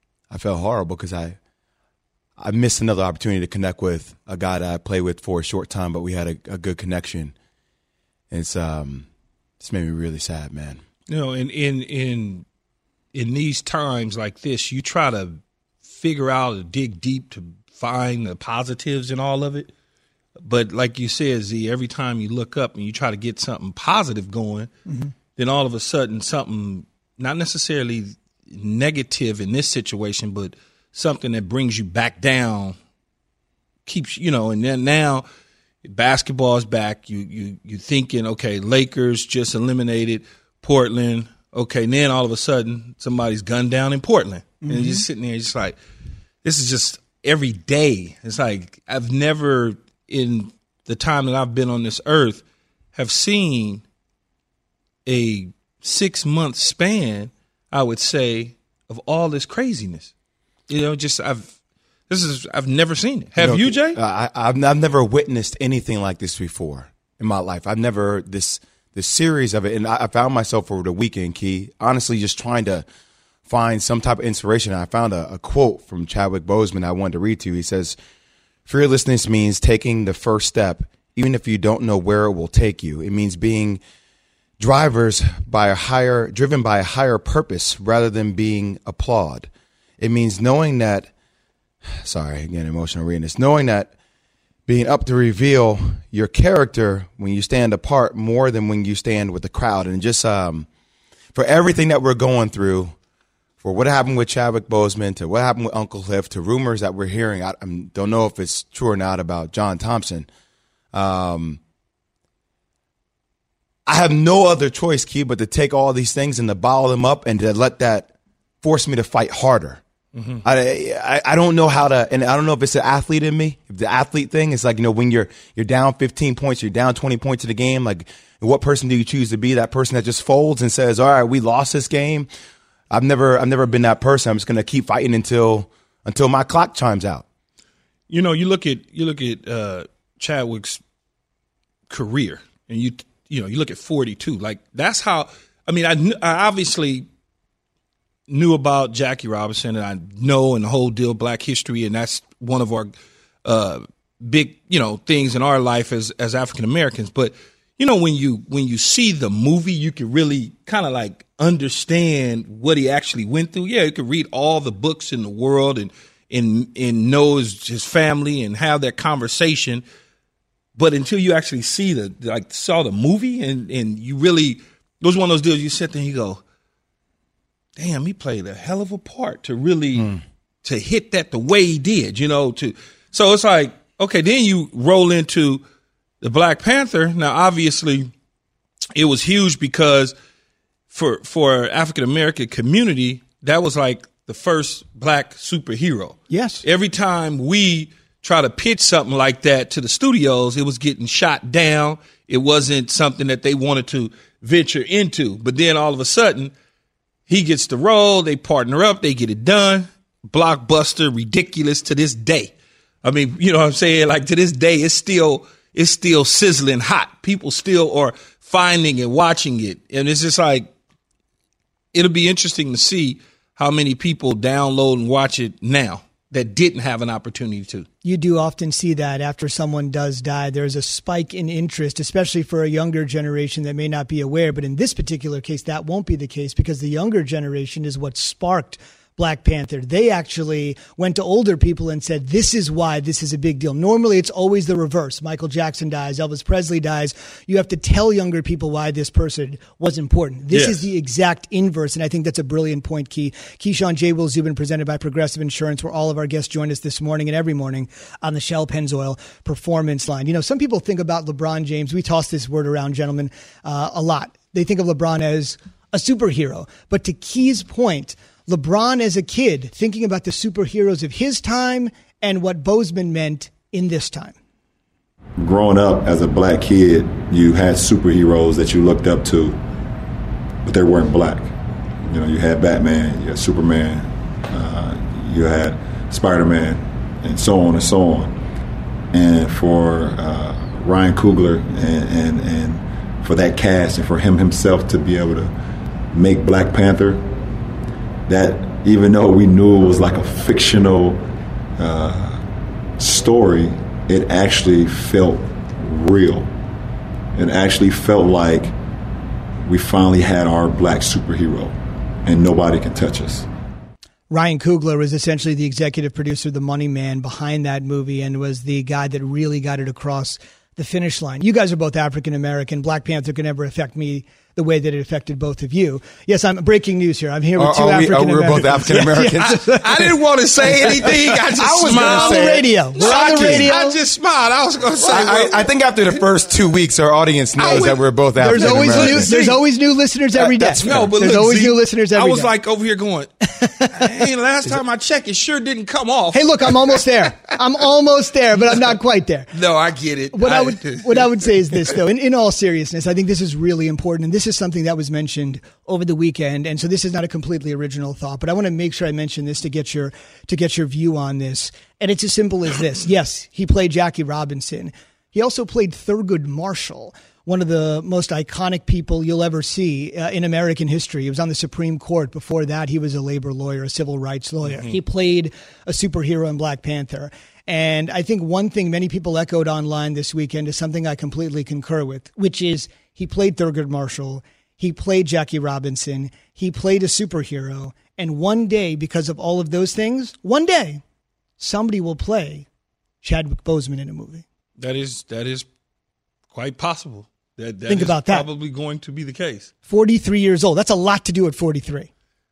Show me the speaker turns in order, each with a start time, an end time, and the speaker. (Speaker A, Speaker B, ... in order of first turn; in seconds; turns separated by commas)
Speaker A: 0.3-1.4, Speaker A: 2.4-7.3, Speaker A: 8.3-9.1, Speaker A: 9.6-10.8, Speaker B: 11.1-12.4, Speaker B: 13.1-19.7, Speaker B: 20.4-24.7, Speaker B: 25.4-32.8, Speaker B: 33.9-35.2, Speaker B: 35.8-45.8, Speaker C: 44.6-45.0, Speaker B: 46.4-52.4, Speaker B: 52.9-53.8, Speaker B: 55.0-60.1, Speaker B: 60.7-61.5, Speaker B: 62.1-64.0, Speaker A: 63.4-72.8, Speaker A: 73.5-78.0, Speaker A: 78.7-83.8, Speaker A: 84.6-91.1, Speaker A: 92.0-93.9, Speaker A: 94.7-100.7, Speaker A: 101.3-102.9, Speaker A: 103.6-110.3, Speaker A: 110.9-111.6, Speaker A: 113.9-118.1, Speaker A: 118.6-119.8, Speaker B: 120.2-120.4, Speaker A: 120.4-132.3, Speaker A: 132.9-137.2, Speaker B: 138.1-140.8, Speaker B: 141.9-147.1, Speaker B: 148.3-152.9, Speaker B: 153.4-169.8, Speaker B: 170.8-176.4, Speaker B: 177.8-180.1, Speaker B: 180.6-185.6, Speaker B: 186.2-188.1, Speaker B: 188.9-190.1, Speaker B: 190.9-206.5, Speaker C: 196.3-196.6, Speaker B: 207.3-212.5, Speaker B: 213.0-220.7, Speaker B: 221.9-227.9, Speaker C: 228.0-274.4, Speaker B: 250.5-250.8, Speaker D: 275.4-279.6, Speaker D: 280.6-288.4, Speaker D: 289.1-295.5, Speaker D: 296.1-297.3, Speaker D: 298.3-301.2, Speaker D: 301.8-302.4, Speaker D: 303.0-306.5, Speaker D: 307.3-308.7, Speaker D: 309.6-311.7, Speaker D: 312.2-313.5, Speaker C: 314.3-329.8, Speaker A: 327.6-330.1, Speaker B: 329.2-335.6, Speaker A: 330.6-333.7, Speaker C: 331.8-334.0, Speaker A: 335.0-339.6, Speaker C: 337.6-342.5, Speaker B: 338.6-339.5, Speaker A: 340.5-341.1, Speaker B: 340.7-346.7, Speaker C: 346.3-349.5, Speaker B: 349.5-351.8, Speaker C: 350.3-391.0, Speaker B: 374.6-374.9, Speaker C: 391.6-392.7, Speaker C: 393.2-394.4, Speaker B: 394.8-395.6, Speaker B: 396.5-399.7, Speaker C: 397.9-398.5, Speaker C: 399.9-402.1